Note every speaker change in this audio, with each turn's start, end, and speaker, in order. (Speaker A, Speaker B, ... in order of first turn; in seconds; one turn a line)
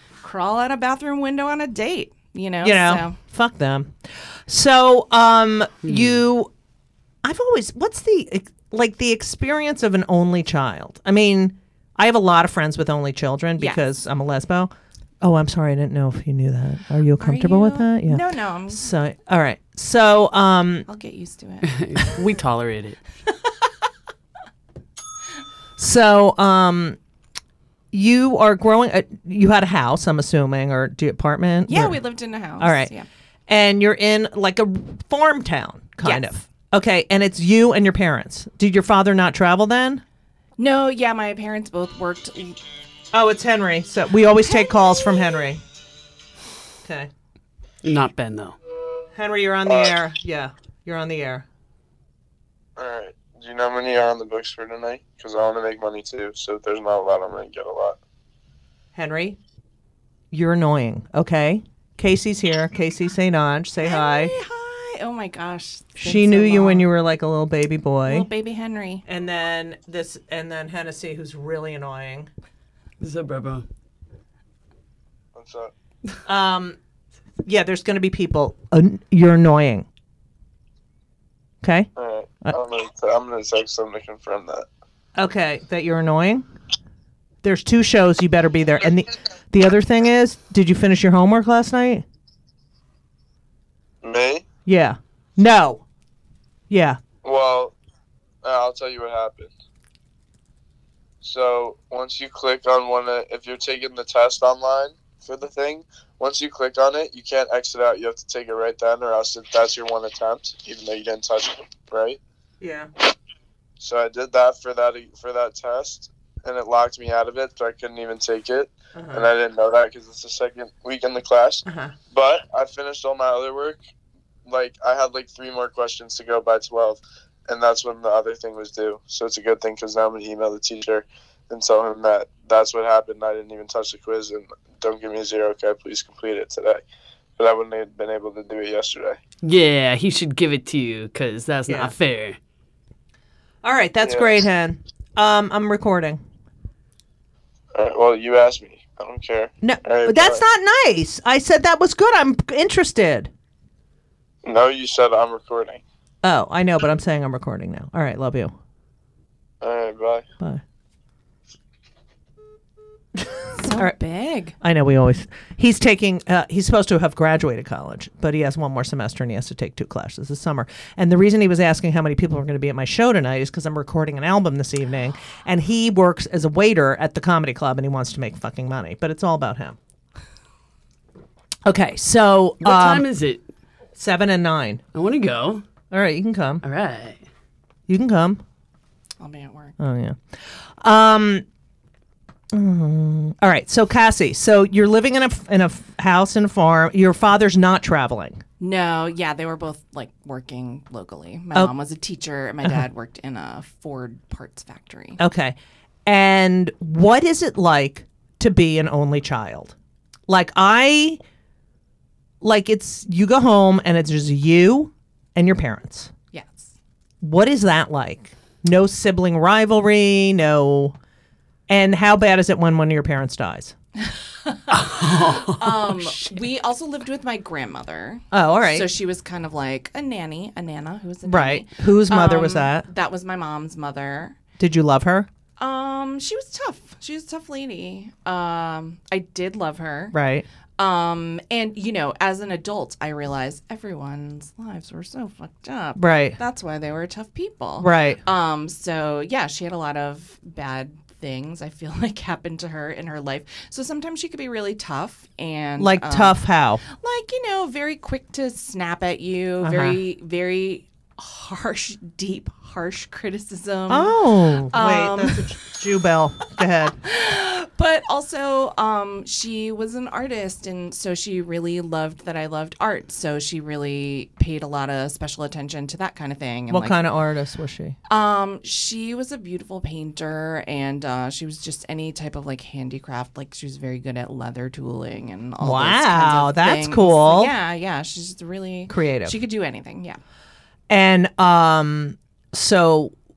Speaker A: 0.2-3.2
Speaker B: 2.6-4.0
Speaker B: 4.5-6.5
Speaker B: 7.2-20.9
Speaker A: 17.2-18.9
Speaker A: 20.9-21.8
Speaker C: 21.6-23.0
Speaker B: 25.8-27.0
Speaker B: 27.9-32.0
Speaker A: 31.7-33.1
Speaker B: 32.6-32.9
Speaker B: 33.5-40.0
Speaker A: 36.0-36.3
Speaker A: 40.6-42.6
Speaker B: 43.1-45.6
Speaker B: 46.8-47.1
Speaker C: 47.8-48.6
Speaker B: 49.1-51.4
Speaker D: 49.7-49.9
Speaker D: 52.8-58.0
Speaker B: 58.9-59.4
Speaker B: 60.3-64.3
Speaker A: 63.8-66.9
Speaker B: 66.0-68.3
Speaker A: 68.0-69.0
Speaker B: 69.1-72.3
Speaker C: 73.0-73.7
Speaker D: 75.3-75.7
Speaker B: 76.2-76.8
Speaker B: 77.4-79.9
Speaker B: 81.6-81.9
Speaker D: 82.0-84.7
Speaker B: 85.2-86.5
Speaker B: 87.4-92.0
Speaker D: 94.0-94.4
Speaker B: 94.7-95.8
Speaker B: 96.7-97.0
Speaker D: 97.2-97.7
Speaker D: 98.4-99.5
Speaker D: 101.2-112.2
Speaker B: 112.6-112.9
Speaker D: 113.8-123.8
Speaker B: 118.9-119.3
Speaker B: 121.7-121.9
Speaker D: 124.5-136.8
Speaker D: 137.4-139.2
Speaker C: 139.4-142.4
Speaker B: 141.7-141.9
Speaker B: 143.6-146.2
Speaker D: 144.0-144.3
Speaker D: 147.7-150.4
Speaker B: 149.6-153.3
Speaker D: 154.4-155.8
Speaker B: 156.2-158.5
Speaker D: 159.6-160.2
Speaker A: 163.5-164.6
Speaker B: 164.6-179.8
Speaker B: 181.6-183.1
Speaker C: 182.6-183.4
Speaker B: 183.9-184.8
Speaker C: 184.9-185.6
Speaker B: 185.9-186.6
Speaker C: 186.6-187.2
Speaker B: 187.9-188.4
Speaker A: 189.2-189.7
Speaker B: 189.8-190.2
Speaker B: 190.8-191.4
Speaker B: 192.5-198.4
Speaker A: 198.6-205.2
Speaker B: 205.2-209.7
Speaker B: 210.3-211.2
Speaker B: 212.4-216.1
Speaker A: 216.3-216.7
Speaker B: 217.2-220.9
Speaker B: 221.7-223.7
Speaker A: 224.4-224.7
Speaker C: 224.7-225.8
Speaker A: 225.4-234.4
Speaker B: 228.3-228.9
Speaker B: 231.2-232.9
Speaker B: 234.6-235.3
Speaker A: 235.6-240.2
Speaker B: 240.1-240.4
Speaker A: 240.8-264.2
Speaker B: 245.9-246.4
Speaker B: 247.8-248.2
Speaker B: 255.8-256.8
Speaker B: 259.6-260.0
Speaker B: 263.9-267.0
Speaker A: 264.7-265.5
Speaker A: 267.0-277.0
Speaker B: 276.7-277.9
Speaker A: 278.1-290.2
Speaker B: 285.6-287.5
Speaker B: 288.9-289.4
Speaker B: 290.9-293.1